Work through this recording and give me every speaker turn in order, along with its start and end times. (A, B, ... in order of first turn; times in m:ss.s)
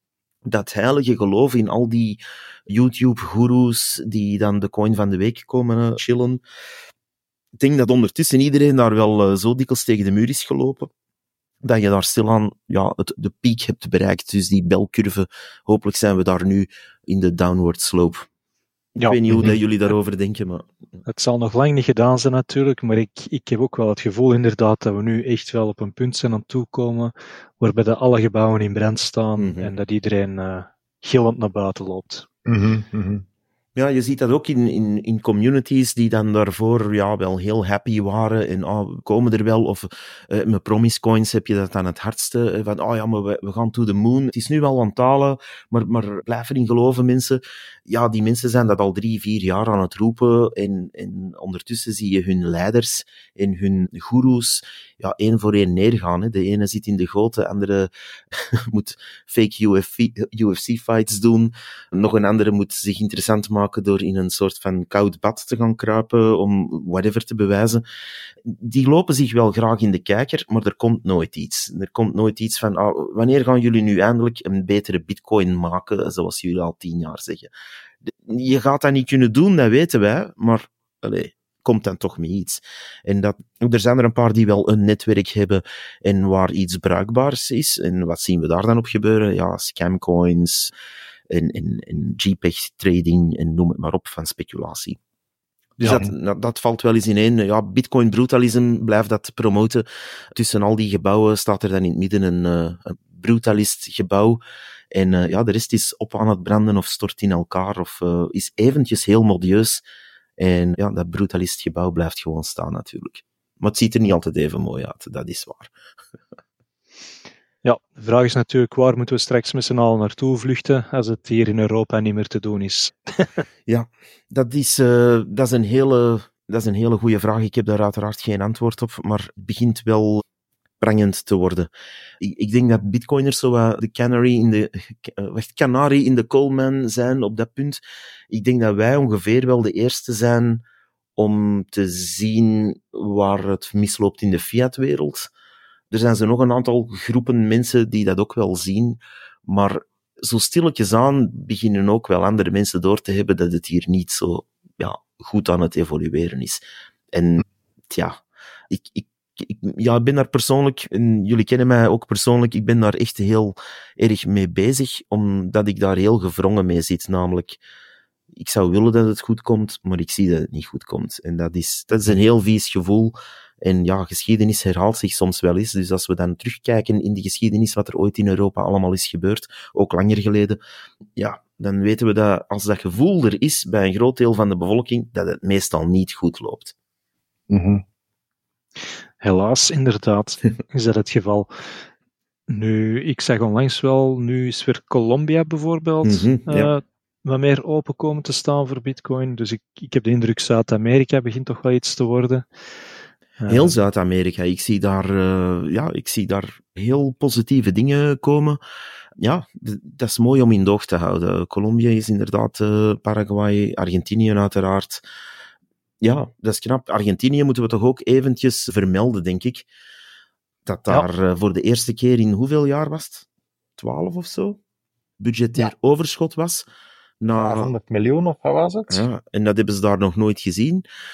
0:00.4-0:06.4 A
0:07.6-0:10.9 A
0:11.6-0:18.3 A
0:19.0-0:20.7 A
0:21.0-0:32.3 B
0:29.4-0:29.7 A
0:32.4-0:33.2 C
0:33.8-1:07.8 A
1:08.4-1:17.5 A
1:18.0-1:30.7 A
1:31.3-1:35.0 A
1:35.8-1:44.4 A
1:44.9-1:49.8 A
1:50.4-1:55.7 A
1:57.6-2:03.4 B
2:03.7-2:10.2 A
2:10.8-2:20.6 A
2:21.2-2:25.3 A
2:25.9-2:36.6 A
2:37.1-2:38.2 A
2:38.7-2:47.6 A
2:48.3-3:00.6 A
3:01.2-3:06.7 A
3:07.5-3:07.8 C
3:09.2-3:11.5 B
3:12.5-3:22.4 B
3:16.0-3:16.7 A
3:23.4-3:23.7 B
3:23.5-3:28.6 A
3:29.2-3:35.0 A
3:36.0-3:39.6 A
3:40.6-3:43.2 A
3:43.8-3:44.6 A
3:45.2-3:46.6 A
3:47.2-3:47.7 A
3:47.3-3:49.0 C
3:48.9-3:50.8 A